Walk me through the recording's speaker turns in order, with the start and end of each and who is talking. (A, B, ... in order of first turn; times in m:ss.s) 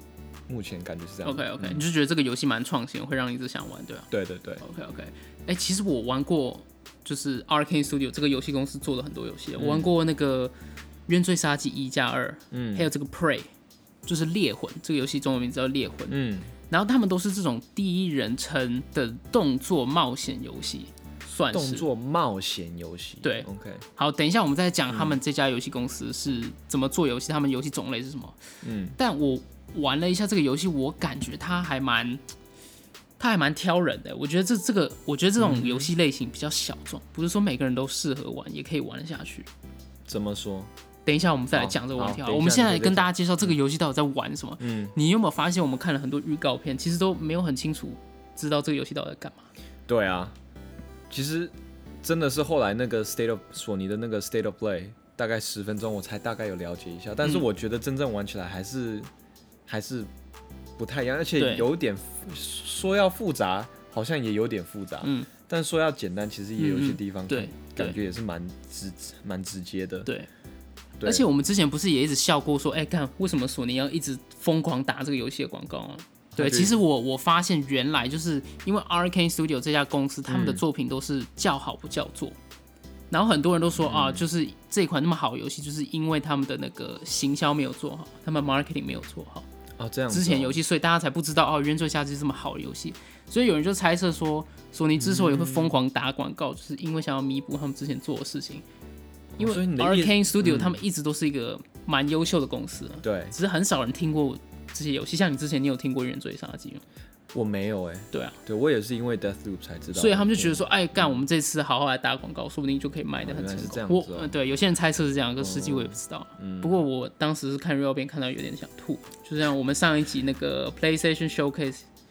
0:00.5-0:01.8 A
0:01.2-0:04.1 B
0:04.1-0:04.6 A
0:04.6-0:10.5 B
0:09.6-0:09.9 A
0:11.1-0:13.5 B
0:12.5-0:12.9 A
0:14.1-0:16.2 B
0:16.1-0:16.5 A
0:16.7-0:21.9 B
0:21.5-0:23.8 A
0:23.2-0:28.4 B
0:24.9-0:25.2 A
0:28.6-0:29.0 A
0:29.0-0:32.2 B
0:33.2-0:39.5 B
0:35.4-0:35.9 A
0:40.1-0:40.7 A
0:41.1-0:49.5 B
0:41.5-0:43.6 A
0:44.6-0:44.9 A
0:49.9-0:50.4 A
0:51.1-0:59.1 A
0:59.7-1:00.1 A
1:00.8-1:10.1 A
1:01.4-1:01.7 B
1:05.0-1:05.3 B
1:06.6-1:08.0 B
1:11.0-1:11.3 A
1:11.0-1:22.4 B
1:16.4-1:16.8 A
1:20.3-1:20.6 A
1:23.1-1:29.5 B
1:23.8-1:24.3 A
1:29.8-1:30.6 A
1:30.1-1:38.6 B
1:35.0-1:35.8 A
1:39.4-1:40.8 A
1:39.4-1:46.8 B
1:43.0-1:43.4 A
1:47.3-1:51.2 A
1:50.0-2:01.8 B
1:53.2-1:54.3 A
1:55.4-1:56.8 A